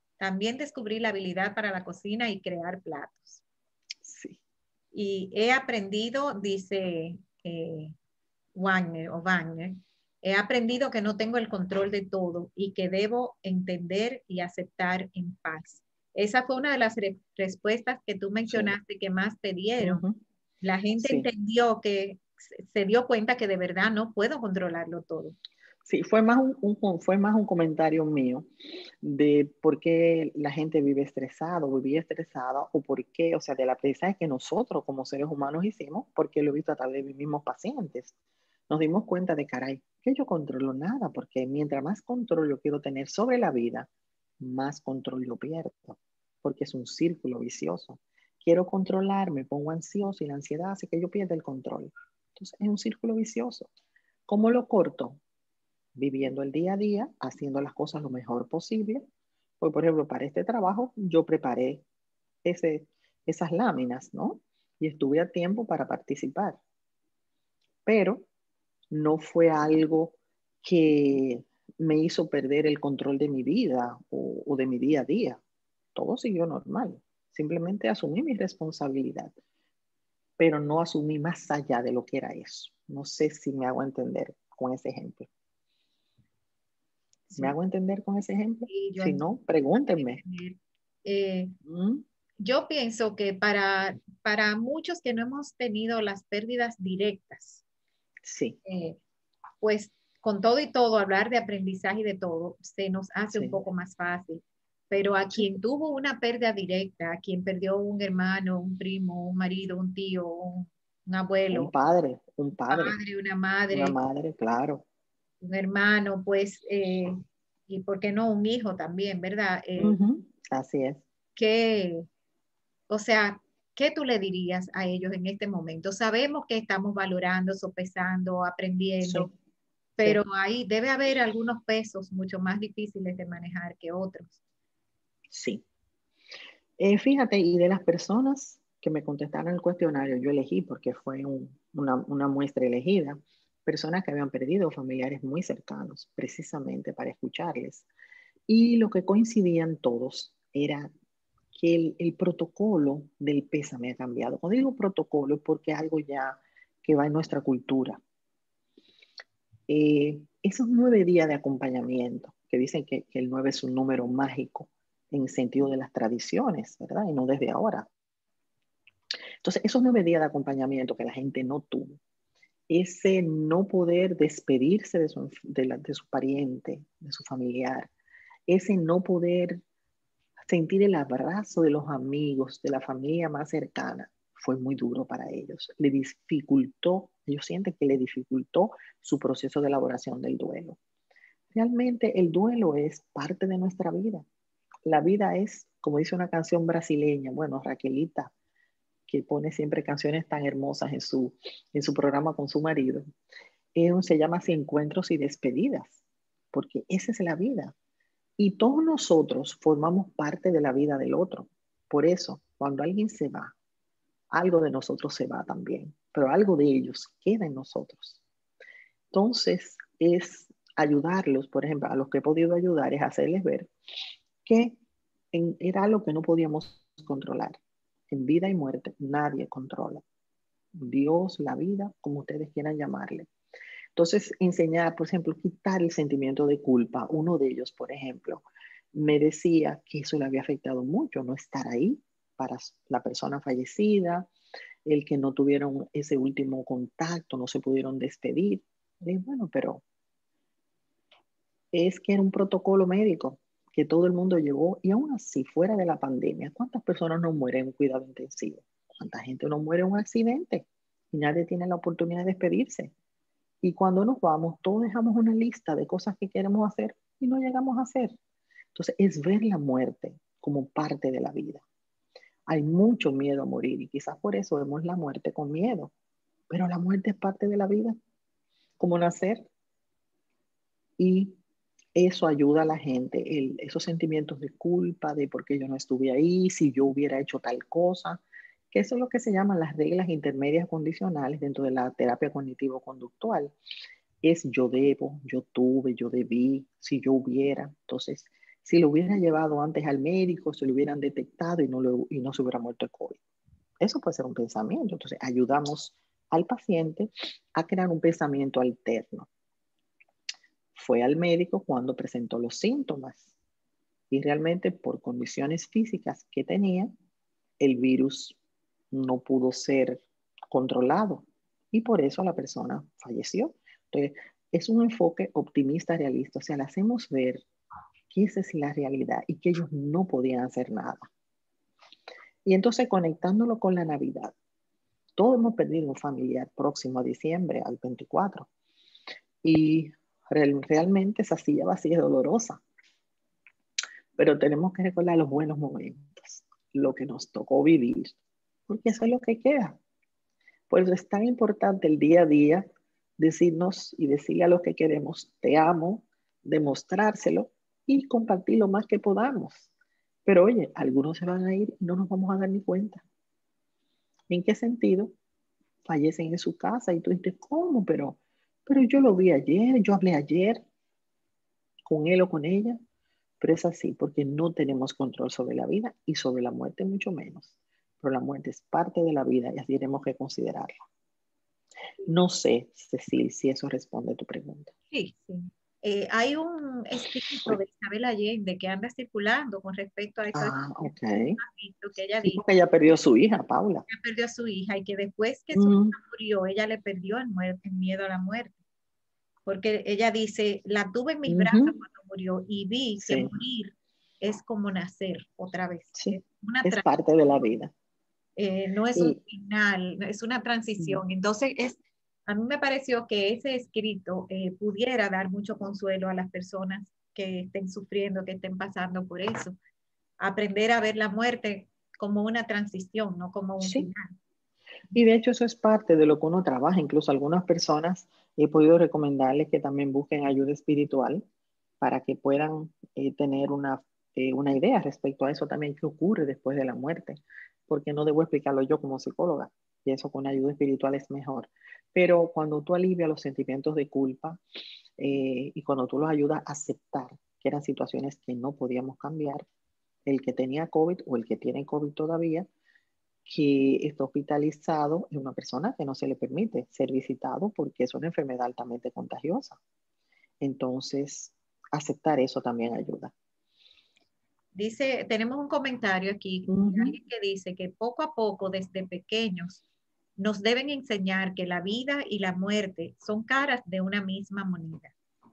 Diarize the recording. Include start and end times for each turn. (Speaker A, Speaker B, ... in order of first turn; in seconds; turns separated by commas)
Speaker A: 0.2-3.4, Speaker B: 4.0-4.4, Speaker A: 4.9-7.9, Speaker A: 8.5-20.0, Speaker B: 18.5-18.8, Speaker B: 19.8-20.2, Speaker A: 20.6-25.3, Speaker B: 20.9-21.3, Speaker B: 25.8-28.5, Speaker B: 29.0-38.1, Speaker B: 38.7-43.9, Speaker B: 44.4-53.7, Speaker B: 54.3-55.2, Speaker B: 55.9-59.0, Speaker B: 59.6-61.8, Speaker B: 62.4-66.6, Speaker B: 67.8-68.3, Speaker B: 68.9-75.4, Speaker B: 75.9-79.3, Speaker B: 80.4-85.3, Speaker A: 87.3-87.5, Speaker B: 87.3-90.2, Speaker A: 88.7-91.5, Speaker B: 91.6-92.0, Speaker A: 92.4-97.6, Speaker B: 98.2-98.6, Speaker A: 98.6-99.0, Speaker A: 99.6-111.7, Speaker B: 103.3-103.6, Speaker B: 111.5-113.0, Speaker A: 112.7-114.0, Speaker B: 113.7-114.8, Speaker A: 115.4-120.0, Speaker B: 119.8-121.0, Speaker A: 121.3-122.1, Speaker A: 122.9-129.3, Speaker B: 129.0-129.3, Speaker A: 130.0-134.4, Speaker B: 135.3-135.6, Speaker B: 136.8-147.9, Speaker B: 148.5-150.9, Speaker B: 151.5-158.0, Speaker B: 159.7-167.9, Speaker B: 169.4-172.0, Speaker B: 172.7-177.9, Speaker B: 178.5-179.6, Speaker B: 180.4-190.8, Speaker B: 191.5-194.2, Speaker B: 194.8-198.3, Speaker B: 199.1-203.0, Speaker B: 203.7-206.0, Speaker B: 206.5-207.7, Speaker B: 208.4-213.5, Speaker B: 214.3-218.2, Speaker B: 219.1-223.7, Speaker B: 224.4-224.8, Speaker B: 225.3-227.6, Speaker B: 228.1-230.0, Speaker B: 230.7-233.3, Speaker B: 233.9-244.3, Speaker B: 244.8-249.8, Speaker B: 251.7-262.9, Speaker B: 263.6-268.1, Speaker B: 268.7-271.6, Speaker B: 272.5-275.9, Speaker B: 276.5-277.9, Speaker B: 278.8-279.5, Speaker B: 281.0-281.4, Speaker B: 281.9-293.5, Speaker B: 294.2-303.2, Speaker B: 303.8-309.3, Speaker B: 310.7-313.3, Speaker B: 314.1-316.9, Speaker B: 317.6-318.4, Speaker B: 318.9-327.4, Speaker B: 328.1-331.1, Speaker B: 332.4-334.3, Speaker B: 335.2-338.5, Speaker B: 339.4-342.6, Speaker B: 344.2-348.1, Speaker B: 348.7-349.8, Speaker B: 350.7-352.6, Speaker B: 353.2-359.7, Speaker B: 360.2-363.0, Speaker B: 364.3-365.1, Speaker B: 365.8-370.6, Speaker B: 371.8-372.8, Speaker B: 373.4-380.7, Speaker B: 382.0-384.7, Speaker A: 384.9-392.4, Speaker B: 390.3-391.4, Speaker B: 392.2-393.9, Speaker A: 393.9-398.6, Speaker B: 395.5-396.0, Speaker A: 399.4-406.9, Speaker B: 401.3-401.8, Speaker B: 403.0-403.3, Speaker B: 405.9-407.7, Speaker A: 408.4-419.6, Speaker A: 420.2-424.1, Speaker B: 423.6-423.9, Speaker B: 424.9-431.2, Speaker B: 431.8-444.4, Speaker B: 445.0-449.4, Speaker B: 450.1-452.5, Speaker B: 453.3-459.6, Speaker B: 460.4-463.1, Speaker A: 464.5-469.6, Speaker B: 466.5-467.0, Speaker A: 470.2-474.9